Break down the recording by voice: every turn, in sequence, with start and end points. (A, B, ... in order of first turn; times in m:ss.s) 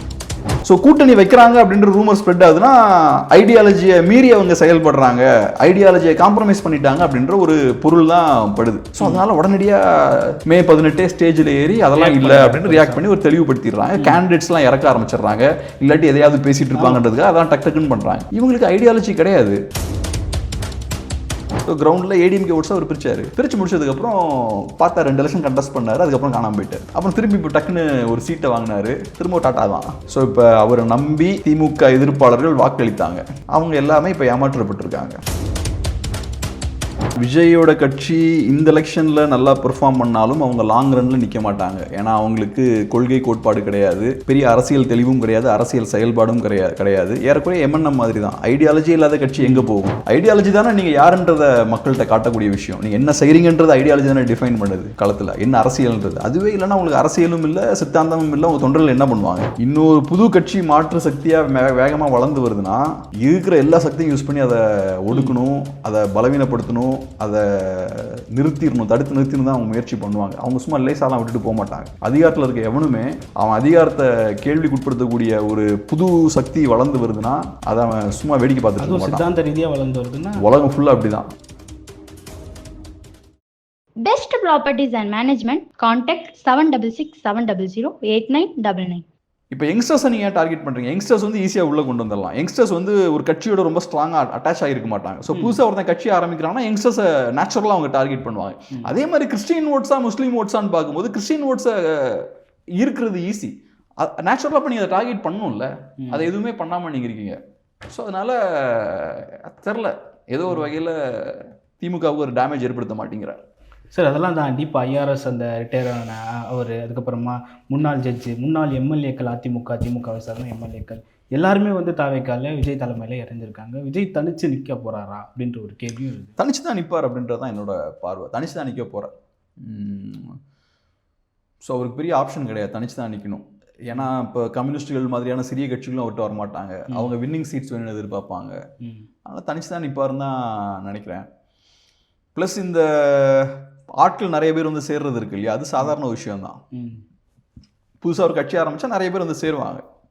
0:00.6-0:19.6 A
0:11.9-0:13.0 B
0:14.0-0:14.2 B
0:16.8-0:17.1 B
0:21.7-0:35.2 A
0:37.2-1:19.2 A
0:49.4-0:49.7 B
1:05.1-1:05.4 B
1:18.8-1:20.4 B
1:20.4-1:21.2 A
1:24.0-1:29.0 C
1:29.5-1:47.4 A
1:35.3-1:35.6 B
1:46.0-1:46.3 B
1:47.9-1:53.4 A
1:53.9-2:06.4 B
2:06.4-2:10.4 A
2:11.6-2:18.6 A
2:18.8-2:19.1 B
2:19.3-2:21.3 A
2:22.4-2:26.6 A
2:26.7-2:27.0 B
2:28.0-2:29.8 A